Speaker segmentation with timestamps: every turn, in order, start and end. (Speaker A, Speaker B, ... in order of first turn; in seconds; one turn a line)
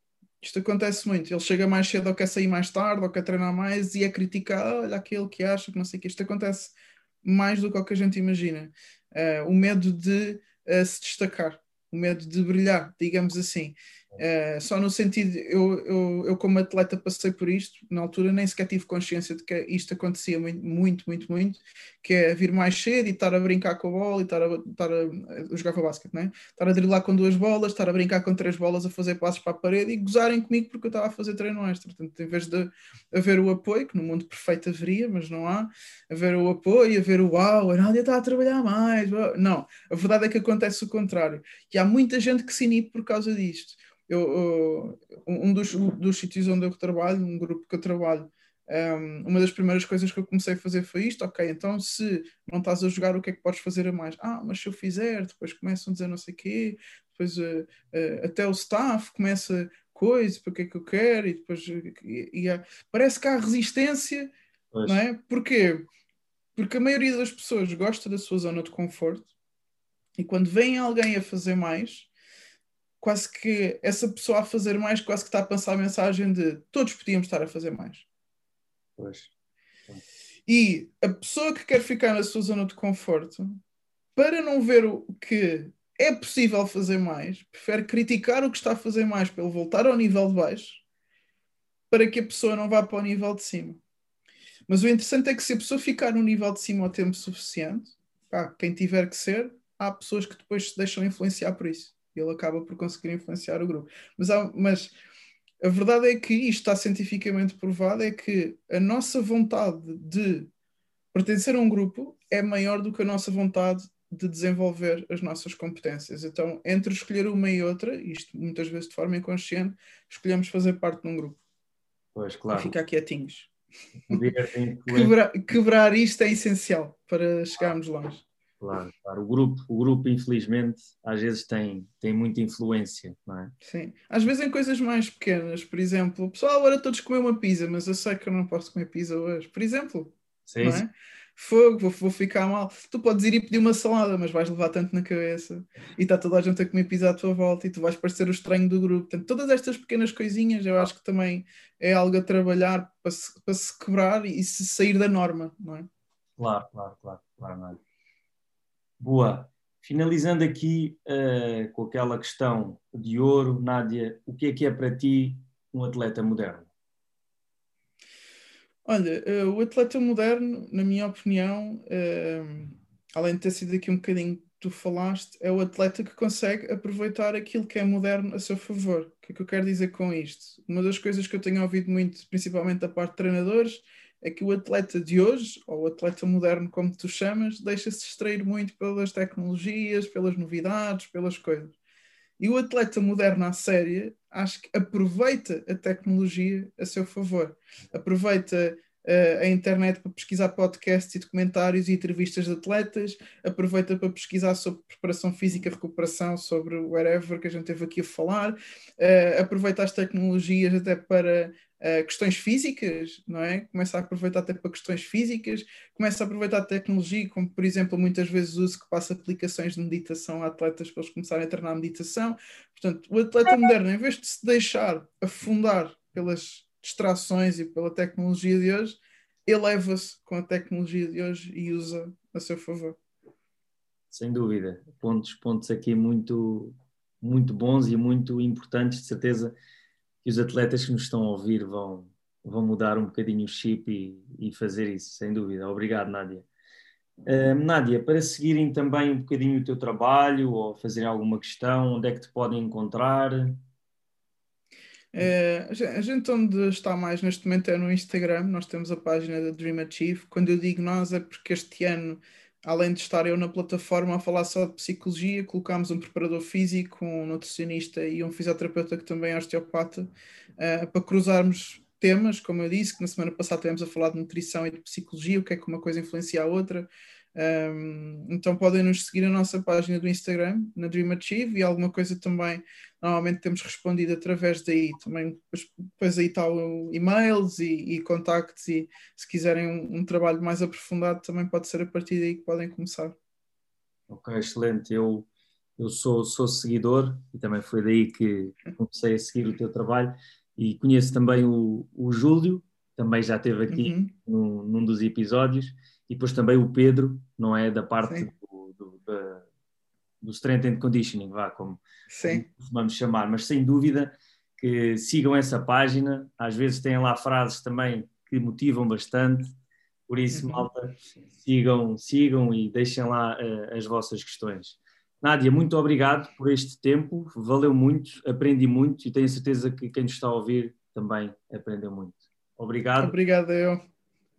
Speaker A: 0.4-64.3
Speaker B: 64.7-65.0
Speaker A: 64.9-65.9
Speaker A: 66.6-69.3
Speaker A: 70.2-72.1
Speaker A: 73.0-78.1
Speaker B: 79.0-79.3
Speaker A: 80.5-83.6
Speaker A: 84.2-90.8
Speaker A: 91.9-93.8
Speaker A: 94.7-104.9
Speaker A: 105.6-110.5
Speaker A: 111.1-121.4
Speaker B: 122.2-122.7
Speaker A: 122.5-123.5
Speaker B: 124.0-125.2
Speaker A: 124.9-128.2
Speaker B: 128.6-133.5
Speaker A: 133.6-155.9
Speaker B: 140.5-140.8
Speaker B: 156.4-157.8
Speaker B: 159.0-166.7
Speaker A: 168.8-191.7
Speaker A: 192.4-233.0
Speaker B: 234.1-239.6
Speaker B: 240.2-246.5
Speaker B: 247.2-253.6
Speaker A: 255.1-293.2
Speaker B: 294.1-309.5
Speaker A: 303.7-304.1
Speaker B: 310.2-319.5
Speaker A: 312.1-312.4
Speaker B: 320.1-333.2
Speaker A: 320.3-320.7
Speaker A: 333.0-333.8